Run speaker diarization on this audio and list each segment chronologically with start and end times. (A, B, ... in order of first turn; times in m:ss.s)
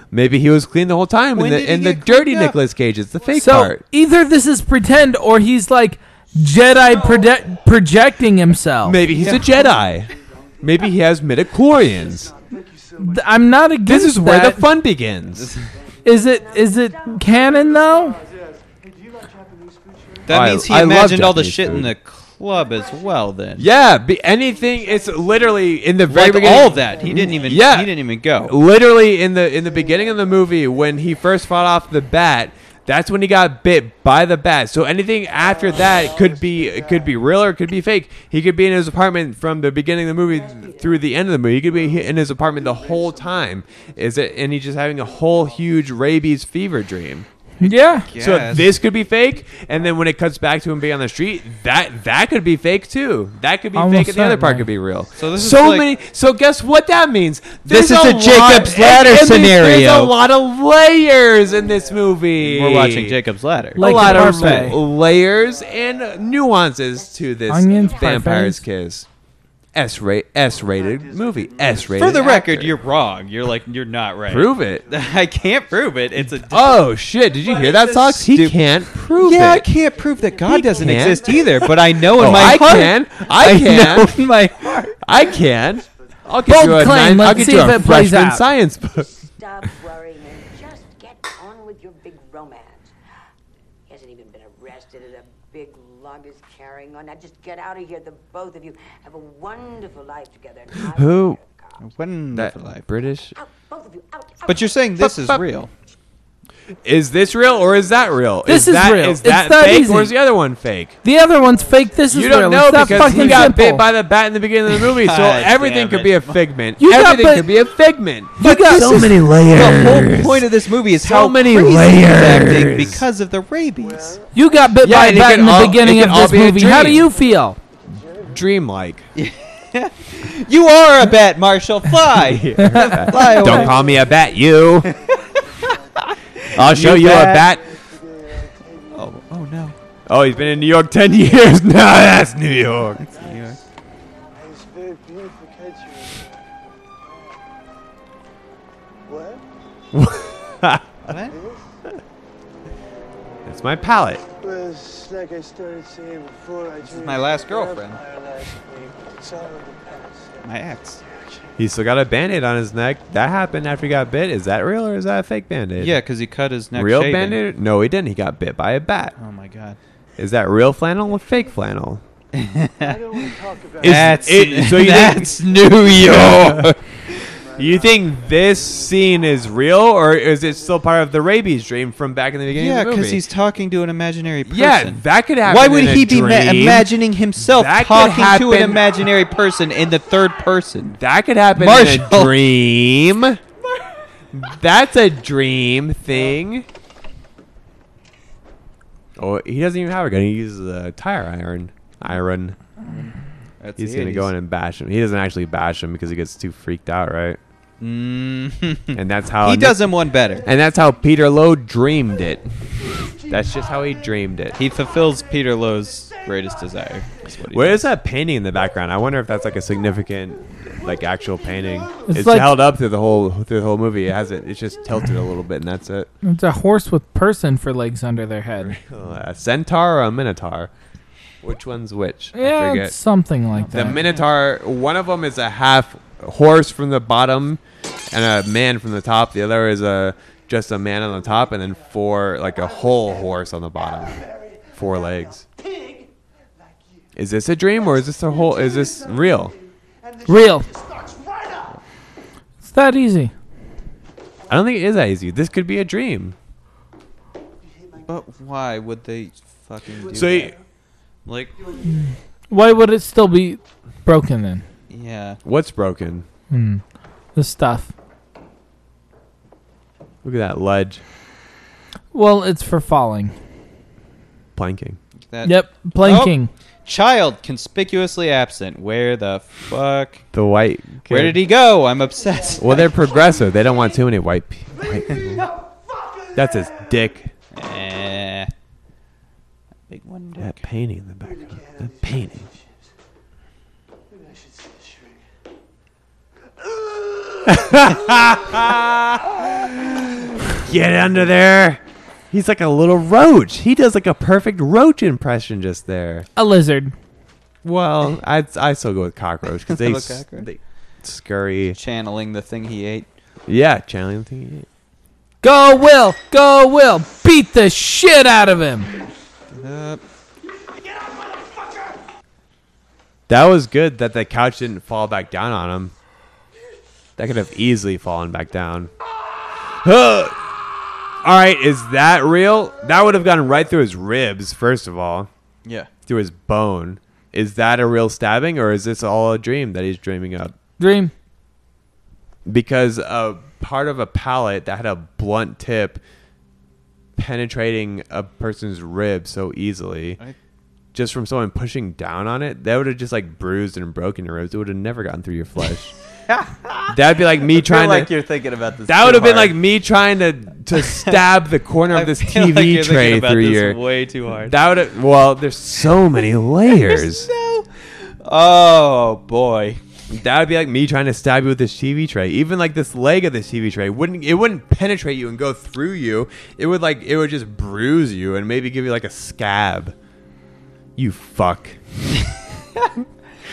0:00.1-0:03.8 A
0:01.3-0:02.6 B
0:03.2-0:03.6 C
0:03.4-0:09.0 D
0:06.5-0:07.6 C
0:08.8-0:12.3 A
0:09.0-0:11.0 C
0:09.1-0:09.5 B
0:11.6-0:13.5 C
0:13.0-0:14.7 D
0:13.8-0:15.5 A
0:15.4-0:15.7 B
0:15.5-0:15.8 C
0:15.8-0:18.2 E
0:16.0-0:18.2 D
0:17.3-0:20.3 C
0:20.2-0:23.7 B
0:20.3-0:21.9 A
0:23.6-0:47.3 A
0:24.5-0:25.6 C
0:26.1-0:28.6 B
0:26.8-0:27.3 E
0:29.6-0:30.6 C
0:35.4-0:37.2 C
0:40.3-0:41.1 E
0:42.2-0:43.4 E
0:42.6-0:43.2 C
0:45.1-0:45.6 C
0:47.6-0:48.1 D
0:48.0-0:48.7 B
0:48.2-1:03.2 A
0:53.7-0:54.7 D
0:55.2-0:55.9 B
0:57.6-1:00.1 B
1:01.4-1:02.2 C
1:02.4-1:04.6 B
1:03.8-1:04.8 D
1:03.8-1:09.0 A
1:05.1-1:06.2 C
1:06.9-1:08.2 E
1:07.5-1:08.6 D
1:09.7-1:12.8 A
1:10.6-1:12.2 C
1:11.9-1:16.9 B
1:14.3-1:14.9 A
1:14.8-1:15.3 C
1:16.2-1:19.7 A
1:17.5-1:17.8 C
1:17.5-1:25.2 B
1:19.8-1:21.7 E
1:20.5-1:24.3 A
1:25.0-1:29.1 A
1:25.8-1:26.3 C
1:26.4-1:28.4 D
1:29.0-1:32.8 E
1:33.9-1:41.8 E
1:40.8-1:41.4 A
1:41.8-1:42.9 B
1:42.3-1:43.4 A
1:43.4-1:44.6 E
1:44.4-1:45.7 B
1:45.0-1:45.4 A
1:46.8-1:51.0 A
1:47.4-1:47.7 C
1:48.4-1:50.2 D
1:51.0-1:53.9 D
1:51.4-1:52.6 C
1:52.1-2:03.0 A
1:52.8-1:53.5 B
1:54.7-1:56.4 B
1:56.8-1:57.6 D
1:58.4-1:59.3 D
1:59.5-2:04.2 B
2:03.8-2:04.8 C
2:04.3-2:07.6 D
2:04.8-2:07.1 A
2:07.0-2:08.4 C
2:08.2-2:09.0 A
2:09.1-2:14.0 B
2:12.1-2:14.9 A
2:12.6-2:13.6 D
2:13.4-2:19.2 C
2:14.8-2:15.4 B
2:16.0-2:17.5 B
2:16.5-2:17.7 A
2:18.9-2:19.8 B
2:20.1-2:23.0 A
2:20.3-2:20.7 C
2:23.0-2:23.6 B
2:23.1-2:23.6 C
2:24.4-2:26.4 C
2:27.0-2:27.4 C
2:29.0-2:29.4 C
2:29.9-2:31.1 A
2:31.1-2:31.4 B
2:31.3-2:31.7 C
2:33.4-2:34.2 A
2:34.4-2:40.5 C
2:36.8-2:38.0 B
2:40.4-2:41.0 B
2:41.0-2:41.5 C
2:41.6-2:46.0 A
2:45.8-2:47.4 B
2:46.7-2:49.1 A
2:49.2-2:49.8 B
2:50.2-2:52.0 A
2:52.3-2:53.3 B
2:52.8-2:54.7 C
2:53.8-2:56.7 A
2:53.8-2:56.8 B
2:57.1-2:59.3 C
2:57.6-3:03.2 A
3:02.5-3:11.0 B
3:04.4-3:09.0 A
3:10.9-3:13.4 A
3:11.6-3:12.3 B
3:14.3-3:16.6 A
3:19.2-3:22.6 A
3:22.8-3:24.3 B
3:23.8-3:27.4 A
3:27.8-3:30.4 B
3:28.9-3:29.9 A
3:30.4-3:34.6 A
3:32.8-3:37.2 C
3:34.6-3:37.8 B
3:37.5-3:46.1 A
3:40.8-3:42.1 C
3:42.1-3:42.5 D
3:46.2-3:48.8 D
3:48.6-3:50.7 A
3:51.4-3:52.9 A
3:52.3-3:54.0 D
3:53.7-3:54.2 B
3:53.7-4:04.2 A
4:01.2-4:06.1 C
4:04.7-4:05.4 A
4:06.6-4:07.1 C
4:07.1-4:09.6 A
4:07.8-4:11.7 C
4:10.2-4:10.7 D
4:12.6-4:13.3 D
4:14.5-4:16.4 A
4:17.7-4:18.1 C
4:18.0-4:20.5 B
4:20.1-4:20.5 A
4:21.2-4:21.5 B
4:21.8-4:24.6 D
4:24.9-4:25.4 B
4:25.4-4:26.2 A
4:26.5-4:26.8 D
4:27.3-4:27.9 D
4:30.2-4:31.0 A
4:32.1-4:33.3 D
4:34.6-4:35.0 A
4:35.3-4:40.2 B
4:35.4-4:36.5 D
4:40.3-4:41.4 A
4:41.1-4:43.0 B
4:42.3-4:43.9 C
4:42.6-4:45.5 A
4:44.7-4:46.9 C
4:45.1-4:45.4 B
4:46.3-4:47.3 A
4:47.5-4:48.5 B
4:49.9-4:50.6 B
4:50.4-4:52.5 A
4:51.2-4:52.7 C
4:54.1-4:55.2 C
4:56.6-4:58.7 C
4:57.5-5:06.3 A
5:06.4-5:06.9 D
5:07.6-5:11.8 A
5:09.6-5:10.5 B
5:11.7-5:13.1 B
5:13.5-5:14.7 A
5:15.4-5:18.9 D
5:19.5-5:20.0 B
5:23.3-5:25.9 A
5:27.2-5:28.9 A
5:29.8-5:30.4 A
5:31.2-5:35.3 A
5:35.6-5:35.9 B
5:36.1-5:40.5 A
5:40.8-5:41.1 D
5:42.4-5:46.0 A
5:47.2-5:50.2 A
5:50.9-5:55.9 A
5:56.3-5:59.6 B
5:56.9-5:58.2 A
5:58.8-6:03.8 A
6:00.7-6:01.2 B
6:01.9-6:04.6 B
6:04.4-6:07.3 A
6:06.6-6:09.8 B
6:10.1-6:19.9 A
6:21.0-6:21.8 A